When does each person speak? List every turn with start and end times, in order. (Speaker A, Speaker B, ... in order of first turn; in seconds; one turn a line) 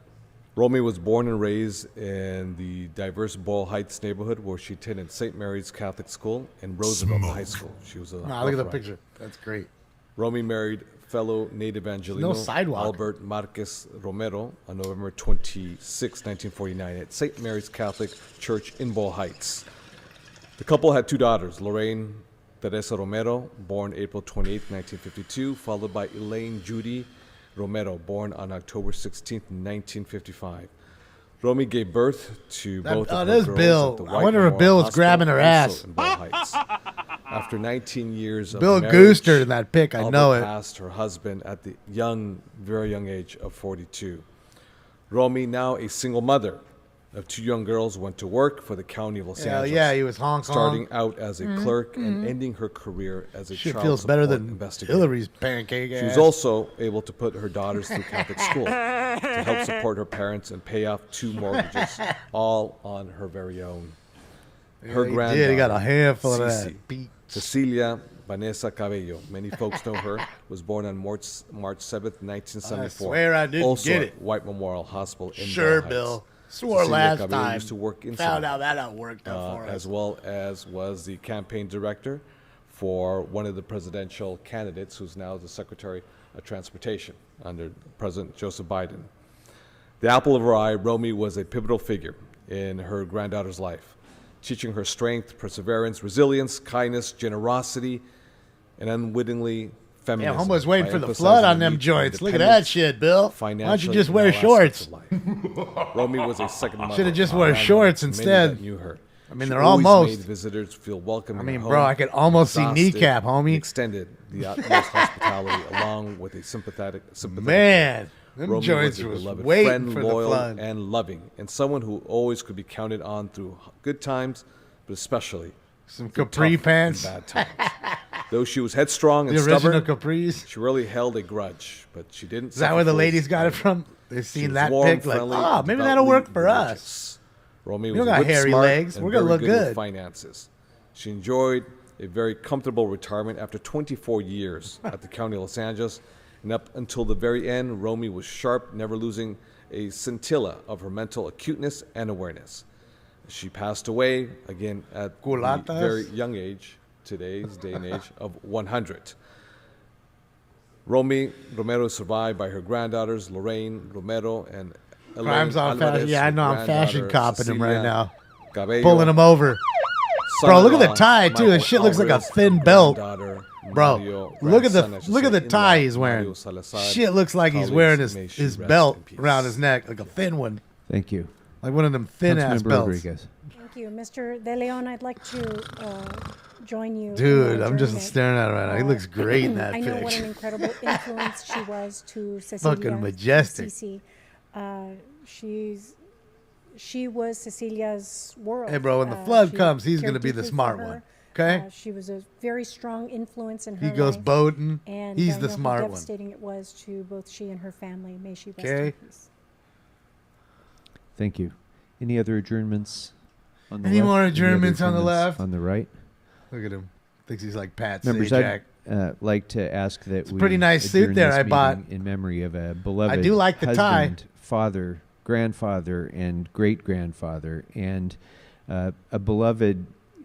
Speaker A: 0.6-8.8
Speaker B: 8.2-9.7
Speaker A: 10.2-19.7
Speaker B: 12.1-13.0
Speaker A: 20.6-30.7
Speaker A: 31.4-36.6
Speaker B: 32.8-35.9
Speaker A: 37.3-44.2
Speaker B: 38.5-40.5
Speaker A: 45.1-46.6
Speaker A: 47.1-55.1
Speaker B: 49.4-50.8
Speaker B: 51.4-52.3
Speaker B: 53.5-56.3
Speaker A: 55.9-64.0
Speaker B: 57.9-58.5
Speaker B: 64.8-67.4
Speaker A: 64.8-78.5
Speaker B: 72.6-74.1
Speaker B: 75.3-79.8
Speaker A: 79.2-89.1
Speaker A: 90.0-98.0
Speaker A: 98.8-105.2
Speaker B: 100.2-104.9
Speaker A: 105.7-125.5
Speaker B: 106.9-108.6
Speaker B: 109.3-110.2
Speaker B: 111.3-113.7
Speaker B: 114.5-115.3
Speaker B: 117.2-120.6
Speaker B: 125.9-128.0
Speaker A: 126.1-127.7
Speaker A: 128.3-129.9
Speaker B: 129.3-130.4
Speaker A: 130.4-133.7
Speaker B: 132.5-136.8
Speaker A: 134.3-152.7
Speaker B: 137.9-139.8
Speaker A: 153.2-159.2
Speaker B: 155.2-156.1
Speaker A: 160.8-167.9
Speaker B: 165.2-168.1
Speaker A: 168.5-169.2
Speaker B: 168.8-169.6
Speaker A: 170.2-179.6
Speaker B: 170.4-173.0
Speaker B: 173.7-180.6
Speaker C: 180.9-181.3
Speaker B: 181.6-183.0
Speaker C: 182.2-183.3
Speaker D: 183.5-196.0
Speaker B: 187.1-191.0
Speaker B: 192.6-193.7
Speaker D: 196.7-209.3
Speaker B: 198.7-201.7
Speaker B: 203.8-206.1
Speaker B: 208.6-208.9
Speaker C: 211.2-213.1
Speaker C: 213.7-215.9
Speaker B: 213.8-215.4
Speaker B: 216.5-218.6
Speaker C: 218.0-228.2
Speaker B: 220.3-221.8
Speaker B: 223.1-224.1
Speaker C: 228.7-229.9